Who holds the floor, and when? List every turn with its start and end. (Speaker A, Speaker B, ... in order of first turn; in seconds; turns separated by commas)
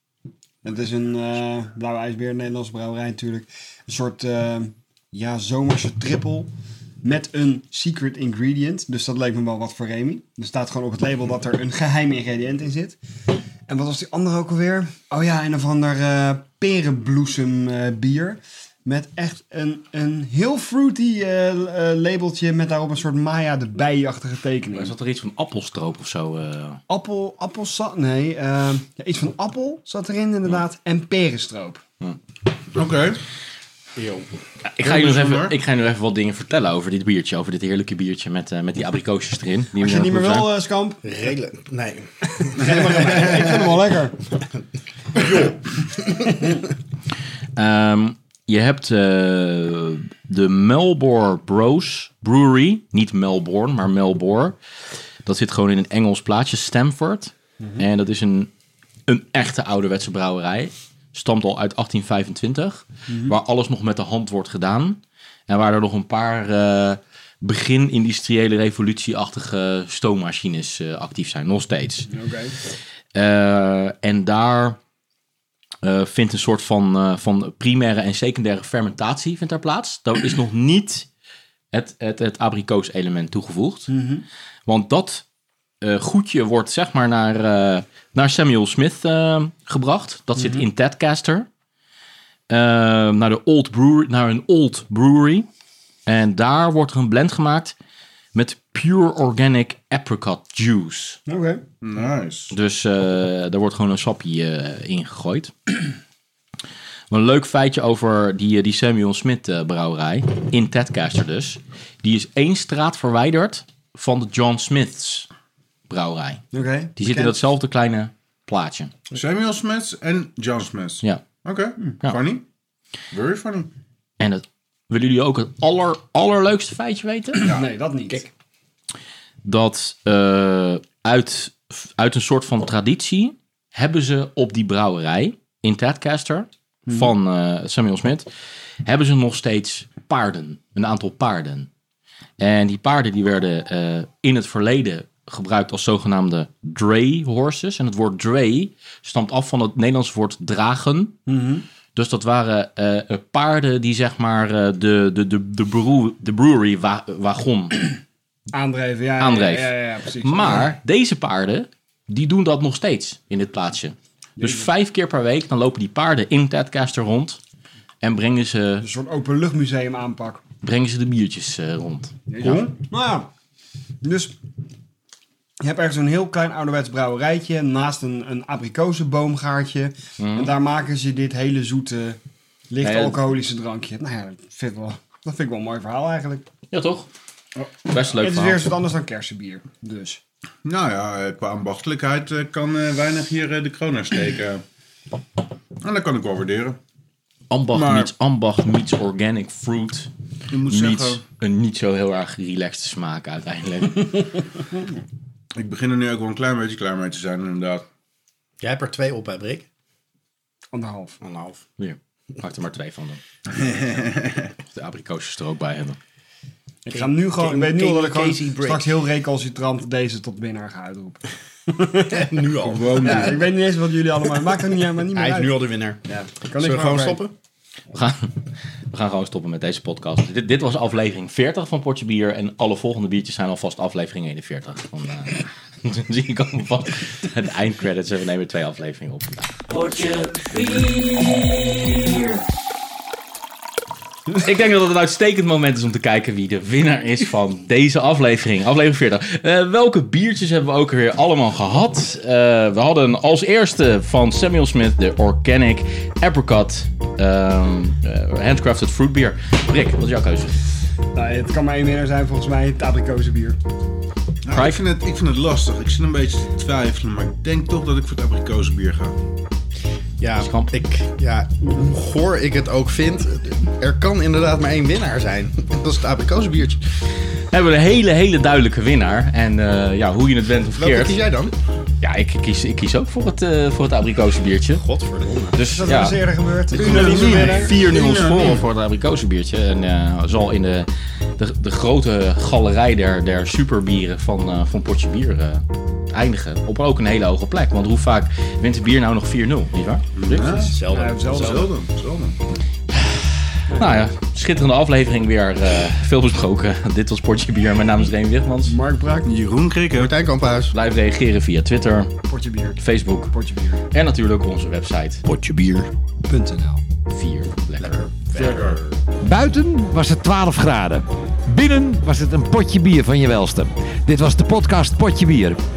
Speaker A: 0.6-6.5, Speaker A: 7.0-13.0, Speaker A: 13.7-24.9, Speaker B: 24.7-26.8, Speaker A: 26.9-31.8, Speaker C: 32.7-33.2, Speaker D: 34.0-34.3, Speaker B: 34.6-40.5, Speaker C: 34.8-35.6, Speaker A: 39.8-41.0, Speaker D: 41.0-43.6, Speaker A: 42.5-44.2, Speaker D: 45.1-46.5, Speaker B: 47.5-54.6, Speaker B: 55.2-58.5, Speaker A: 57.6-57.9, Speaker B: 59.1-72.1, Speaker A: 63.1-63.4, Speaker A: 72.1-72.6, Speaker B: 73.1-74.8, Speaker B: 75.8-81.1, Speaker B: 81.7-83.9, Speaker A: 83.9-84.2, Speaker B: 84.7-85.2, Speaker B: 85.8-91.5, Speaker B: 92.5-95.5, Speaker B: 96.0-97.7, Speaker B: 98.3-101.2, Speaker A: 101.3-101.6, Speaker C: 101.8-102.5, Speaker B: 102.5-105.5, Speaker B: 107.1-115.3, Speaker B: 115.9-116.4, Speaker A: 116.5-117.4, Speaker B: 117.0-118.9, Speaker C: 119.1-122.4, Speaker C: 123.1-123.7, Speaker B: 124.2-127.5, Speaker A: 127.4-128.2, Speaker B: 129.4-138.3, Speaker A: 136.9-137.1, Speaker B: 138.8-141.7, Speaker B: 142.4-151.2, Speaker A: 151.3-151.6, Speaker B: 151.9-157.9, Speaker A: 158.5-160.7, Speaker B: 159.2-167.4, Speaker A: 164.4-164.7, Speaker B: 168.0-168.9, Speaker A: 168.8-170.4, Speaker B: 170.6-172.7, Speaker A: 172.3-173.3, Speaker A: 174.0-174.3, Speaker A: 175.6-182.2, Speaker B: 180.2-180.5, Speaker A: 182.7-186.4, Speaker B: 182.8-183.2, Speaker B: 186.7-187.1, Speaker B: 187.9-188.6, Speaker A: 188.2-190.2, Speaker C: 190.6-194.6, Speaker C: 195.8-196.8, Speaker B: 197.5-200.1, Speaker C: 197.7-198.1, Speaker C: 200.5-201.2, Speaker B: 200.7-204.4, Speaker C: 205.6-207.8, Speaker D: 208.6-209.7, Speaker A: 210.7-211.2, Speaker D: 211.2-211.6, Speaker B: 211.8-213.2, Speaker C: 213.5-214.5, Speaker B: 214.7-216.0, Speaker A: 216.8-222.3, Speaker D: 216.9-219.0, Speaker D: 222.1-223.4, Speaker C: 222.6-223.5, Speaker A: 223.0-225.6, Speaker D: 225.1-226.0, Speaker A: 226.1-227.2, Speaker D: 226.6-227.3, Speaker B: 227.9-228.4, Speaker B: 228.9-242.4, Speaker B: 244.3-260.6, Speaker A: 261.1-263.6, Speaker C: 264.4-269.1, Speaker B: 264.5-264.8, Speaker D: 270.2-276.8, Speaker B: 270.4-270.8, Speaker B: 277.5-281.3, Speaker D: 280.7-281.6, Speaker B: 282.0-284.8, Speaker D: 284.8-285.6, Speaker B: 285.5-286.2, Speaker A: 285.6-287.8, Speaker C: 286.7-288.6, Speaker B: 286.8-300.5, Speaker C: 300.1-302.4, Speaker A: 300.4-301.7, Speaker D: 300.6-301.7, Speaker B: 302.9-308.8, Speaker A: 303.7-304.0, Speaker A: 308.6-309.3, Speaker C: 309.2-310.1, Speaker D: 309.9-310.7, Speaker B: 310.7-312.1, Speaker A: 312.3-313.8, Speaker B: 312.8-313.3, Speaker B: 313.9-315.2, Speaker E: 315.2-315.9, Speaker A: 316.2-316.8, Speaker B: 317.1-318.1, Speaker D: 317.8-319.0, Speaker C: 318.4-318.8, Speaker E: 319.2-325.6